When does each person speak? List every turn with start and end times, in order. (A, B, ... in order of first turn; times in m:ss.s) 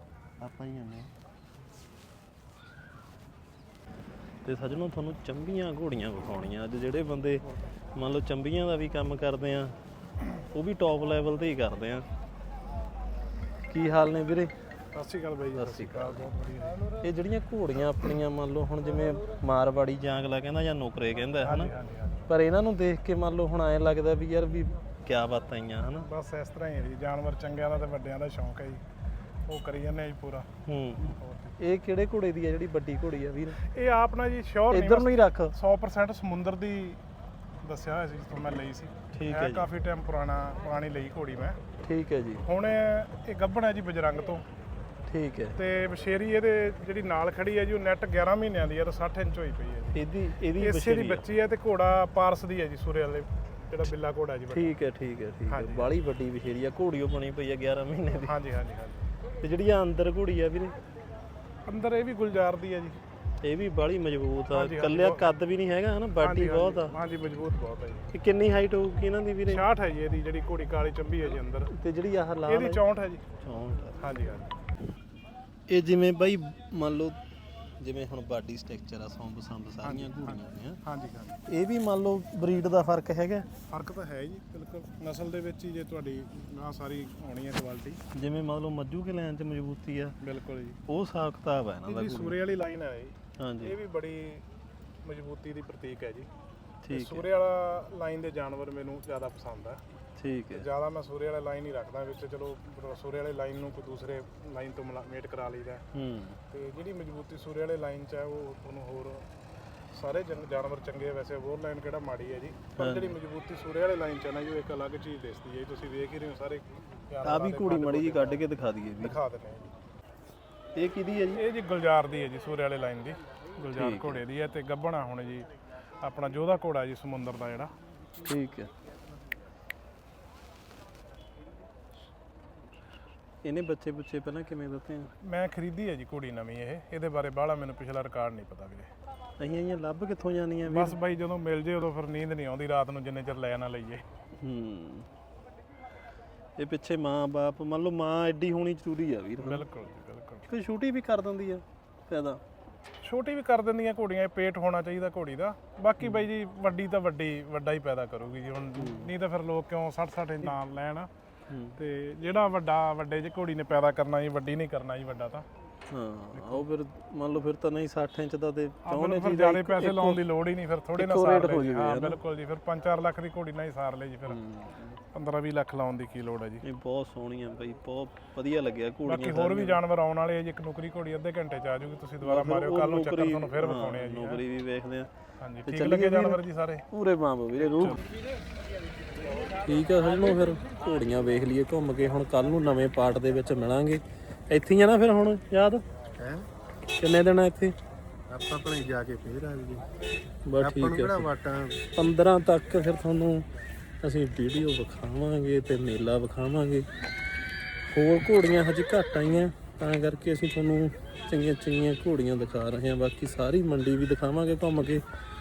0:00.4-0:01.1 A
0:04.4-0:09.8 B
0:10.5-0:12.1 B
0:13.7-0:14.5 B
0:14.9-0:16.9 C
0:15.5-0:16.3 B
0:17.0-0:21.7 B
0:21.4-0:22.3 C
0:22.3-0:26.1 B
0:26.0-0:28.8 C
0:29.5-0:30.5 C
0:30.7-0:33.6 B
0:31.2-0:31.6 C
0:33.6-0:37.0 C
0:34.7-0:35.6 B
0:37.6-0:41.6 C
0:39.1-0:39.7 B
0:41.8-0:42.4 B
0:42.5-0:44.4 C
0:45.1-0:45.6 B
0:45.6-0:54.8 C
0:49.9-0:51.3 B
0:54.5-0:58.3 B
0:55.5-0:55.9 C
0:58.3-0:59.1 C
0:59.4-1:00.8 B
1:01.7-1:03.0 C
1:03.4-1:07.0 B
1:04.5-1:05.3 C
1:06.2-1:08.1 C
1:08.1-1:09.7 B
1:09.5-1:11.7 C
1:11.7-1:12.8 B
1:12.5-1:13.2 C
1:13.4-1:14.0 B
1:14.0-1:14.5 C
1:15.7-1:17.2 B
1:17.8-1:20.8 B
1:19.8-1:21.4 C
1:21.5-1:23.5 B
1:23.7-1:28.0 C
1:28.1-1:30.2 B
1:30.2-1:30.8 C
1:30.9-1:32.4 B
1:31.9-1:34.4 C
1:33.4-1:33.8 B
1:35.0-1:36.3 C
1:36.8-1:37.3 B
1:36.9-1:39.8 C
1:40.2-1:40.7 B
1:40.5-1:45.8 C
1:45.9-1:46.4 B
1:46.5-1:49.3 C
1:49.9-1:58.4 C
1:52.8-1:53.2 B
1:57.2-1:59.2 B
1:59.0-1:59.7 C
2:00.8-2:01.4 B
2:01.4-2:05.5 C
2:03.8-2:04.2 B
2:06.0-2:07.7 C
2:08.2-2:08.7 B
2:13.4-2:15.1 B
2:15.2-2:18.9 C
2:19.4-2:21.0 B
2:20.6-2:24.0 C
2:24.4-2:25.1 B
2:26.6-2:29.6 B
2:29.4-2:30.5 C
2:30.5-2:32.4 B
2:33.0-2:41.1 C
2:36.0-2:36.3 B
2:38.8-2:39.1 B
2:41.5-2:41.8 B
2:41.8-2:45.5 C
2:45.9-2:50.2 B
2:46.3-2:46.7 C
2:48.8-2:54.4 C
2:50.9-2:52.2 B
2:54.3-2:55.0 B
2:55.1-2:56.6 C
2:56.6-2:59.8 B
2:59.1-3:04.4 C
3:02.2-3:05.1 B
3:05.4-3:06.9 C
3:05.7-3:08.0 B
3:07.7-3:08.0 C
3:09.5-3:15.8 B
3:16.2-3:16.5 A
3:16.9-3:17.8 B
3:18.3-3:19.8 A
3:20.5-3:21.3 B
3:20.6-3:21.8 A
3:21.9-3:23.5 B
3:24.0-3:26.9 B
3:27.9-3:35.0 B